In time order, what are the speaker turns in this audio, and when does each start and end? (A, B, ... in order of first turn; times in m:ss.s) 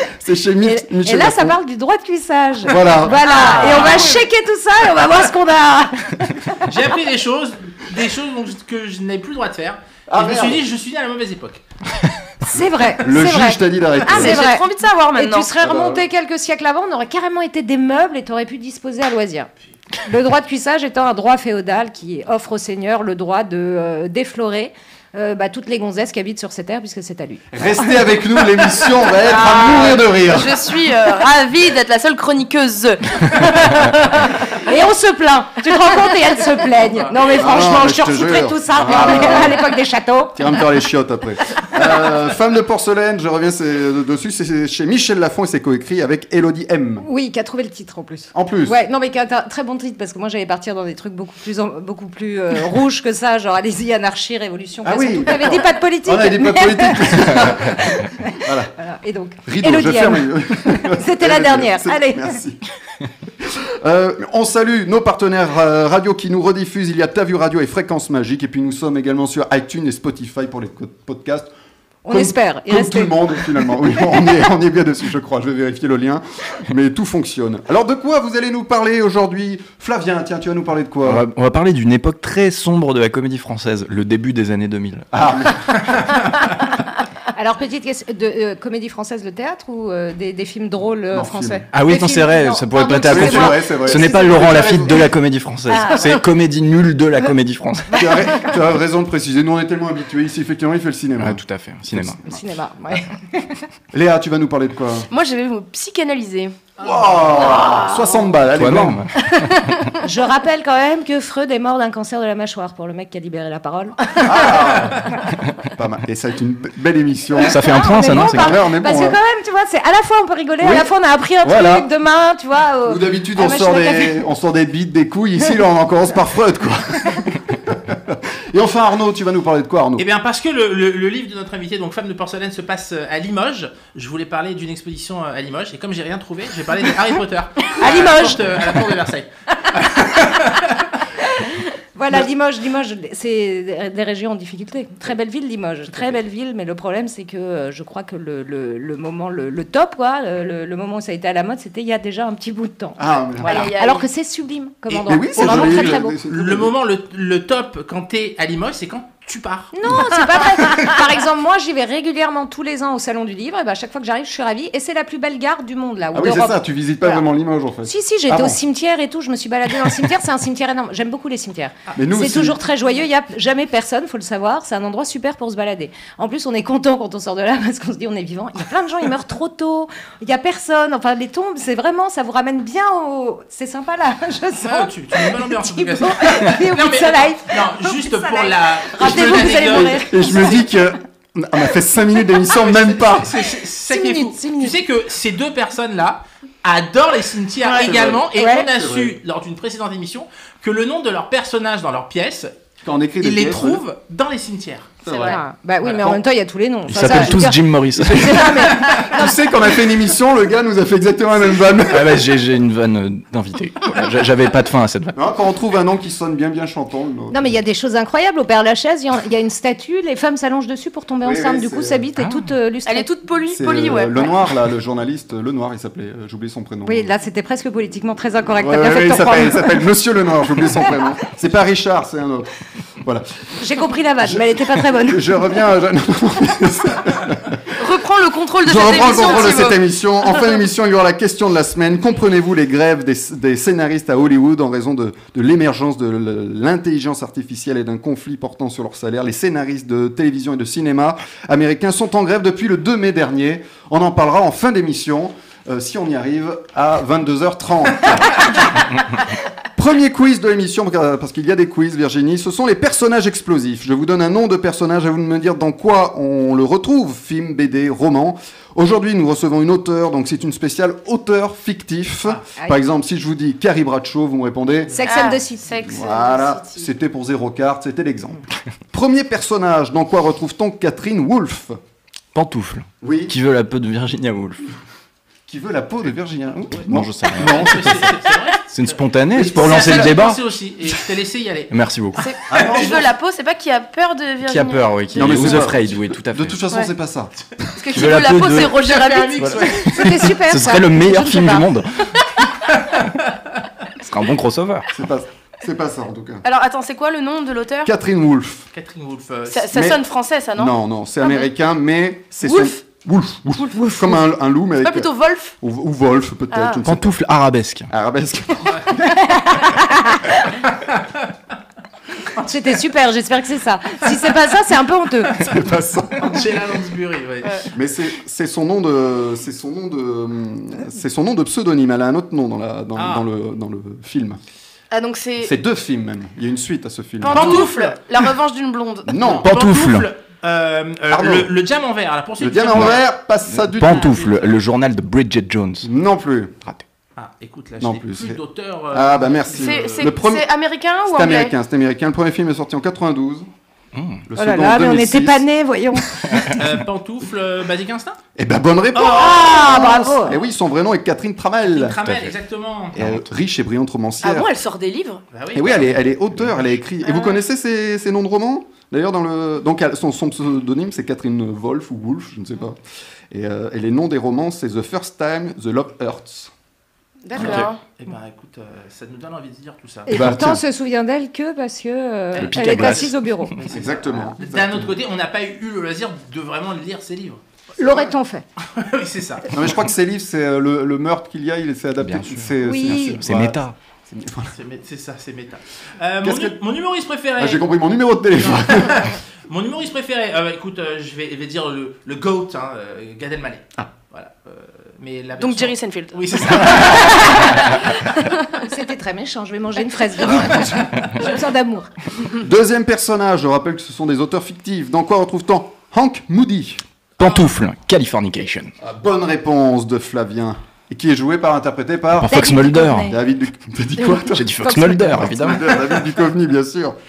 0:00.2-0:01.6 A
0:00.6-0:06.7 B
0:02.6-0:03.9 A
0:03.2-0:04.2 C
0:06.6-0:12.1 C
0:10.1-0:10.6 A
0:12.4-0:27.9 B
0:13.0-0:14.4 A
0:14.1-0:15.5 D
0:15.6-0:16.1 A
0:27.5-0:30.6 A
0:29.2-0:30.0 B
0:29.3-0:34.7 D
0:34.6-0:40.4 B
0:37.3-0:39.7 A
0:40.4-0:47.1 A
0:47.0-1:02.4 B
0:48.3-0:48.8 A
0:54.8-0:58.7 A
0:59.4-1:02.6 A
1:03.4-1:11.5 A
1:12.0-1:13.9 B
1:12.1-1:21.3 A
1:21.0-1:25.1 E
1:25.1-1:25.8 A
1:27.3-1:35.1 B
1:31.1-1:31.6 A
1:31.7-1:38.1 E
1:33.0-1:35.0 A
1:35.8-1:36.2 D
1:37.9-1:38.2 B
1:37.9-1:41.4 A
1:41.2-1:42.2 E
1:41.9-1:42.2 A
1:42.2-1:43.7 B
1:43.9-1:45.1 A
1:45.1-1:46.6 D
1:46.8-1:47.6 C
1:46.8-1:49.0 A
1:47.4-1:48.1 D
1:48.5-1:49.7 E
1:49.3-1:50.0 D
1:50.0-1:54.5 B
1:54.2-1:59.2 A
1:55.0-1:55.3 B
1:57.4-1:58.6 E
1:57.5-2:04.2 B
2:00.6-2:00.9 A
2:01.4-2:01.9 A
2:02.8-2:10.1 A
2:10.0-2:20.9 C
2:17.8-2:18.4 B
2:21.3-2:36.1 B
2:33.0-2:33.7 A
2:33.4-2:34.1 D
2:34.9-2:36.7 A
2:35.2-2:40.8 C
2:39.8-2:47.2 B
2:46.1-2:48.6 A
2:47.8-3:10.6 B
2:52.0-2:52.6 A
3:04.6-3:10.5 C
3:09.0-3:13.3 A
3:12.5-3:22.5 C
3:13.9-3:14.8 B
3:17.8-3:19.2 A
3:18.3-3:18.7 B
3:22.8-3:23.8 A
3:23.2-3:25.2 C
3:25.0-3:26.2 A
3:25.2-3:29.3 B
3:26.9-3:28.6 E
3:28.1-3:32.3 A
3:31.9-3:35.2 E
3:35.2-3:37.6 A
3:37.3-3:43.1 B
3:41.2-3:42.0 A
3:42.2-3:42.5 E
3:42.9-3:44.4 D
3:43.5-3:47.1 A
3:46.8-3:49.9 B
3:48.6-3:53.3 A
3:53.6-3:55.5 B
3:54.2-3:57.7 A
3:57.8-3:59.8 D
3:58.6-4:18.5 A
4:19.8-4:35.1 A
4:35.0-4:35.7 B
4:35.1-4:36.9 D
4:35.8-4:41.8 A
4:42.3-4:44.7 E
4:43.0-4:43.3 A
4:45.5-4:48.2 A
4:46.9-4:47.9 E
4:47.4-4:51.8 C
4:48.7-4:50.4 E
4:49.4-4:50.2 A
4:51.7-4:52.2 E
4:52.2-4:55.7 D
4:52.5-4:53.0 A
4:52.6-4:53.0 C
4:54.4-4:56.6 E
4:55.2-4:58.1 A
4:57.8-4:59.7 D
4:57.9-5:02.1 E
4:58.7-4:59.9 C
4:59.7-5:01.7 B
5:04.0-5:04.9 E
5:04.9-5:06.4 A
5:06.4-5:07.9 D
5:07.8-5:08.7 A
5:08.7-5:09.8 C
5:09.5-5:10.7 D
5:09.7-5:10.0 A
5:10.6-5:17.2 A
5:12.4-5:12.8 D
5:13.8-5:14.0 B
5:14.8-5:15.5 D
5:16.5-5:16.8 D
5:16.8-5:17.9 E
5:17.9-5:19.0 A
5:18.7-5:18.9 C
5:19.0-5:20.6 B
5:20.7-5:21.3 C
5:22.4-5:25.4 B
5:25.4-5:26.5 A
5:26.2-5:27.7 C
5:27.7-5:34.4 A
5:33.0-5:33.3 C
5:34.9-5:35.5 D
5:35.4-5:37.7 A
5:37.2-5:39.4 D
5:37.3-5:38.0 C
5:39.1-5:39.5 A
5:39.2-5:43.0 C
5:39.4-5:40.1 E
5:41.1-5:41.5 A
5:42.4-5:44.2 A
5:43.5-5:45.9 E
5:43.8-5:44.6 C
5:45.8-5:46.6 A
5:47.2-5:50.1 C
5:47.8-5:48.4 A
5:48.9-5:50.5 A
5:49.5-5:51.5 D
5:51.0-5:53.5 A
5:53.9-5:54.2 E
5:54.3-5:55.4 A
5:54.4-5:56.5 B
5:56.3-5:56.6 E
5:56.5-5:58.2 C
5:58.4-6:02.0 A
5:59.0-6:00.4 B
6:01.6-6:03.1 C
6:02.0-6:02.3 E
6:03.0-6:03.2 E
6:03.0-6:04.5 A
6:04.2-6:05.2 D
6:05.3-6:06.0 C
6:05.5-6:12.8 A
6:13.3-6:16.5 A
6:17.3-6:17.7 B
6:17.4-6:17.8 D
6:17.4-6:17.7 E
6:17.8-6:20.1 C
6:20.1-6:23.5 B
6:20.1-6:20.6 A
6:22.4-6:27.4 C
6:22.4-6:23.2 E
6:23.6-6:24.9 A
6:27.8-6:28.4 B
6:28.7-6:29.6 C
6:29.5-6:34.5 A
6:32.0-6:33.8 E
6:32.6-6:33.2 B
6:34.5-6:37.7 C
6:36.2-6:36.6 A
6:37.4-6:39.1 A
6:38.4-6:48.0 C
6:45.4-6:47.6 D
6:48.2-6:48.6 D
6:48.7-6:51.9 B
6:50.2-6:51.1 A
6:52.2-6:56.8 A
6:57.2-6:58.7 E
6:58.8-7:07.0 A
7:02.2-7:03.1 E
7:02.2-7:03.2 B
7:04.3-7:05.7 E
7:04.6-7:05.5 B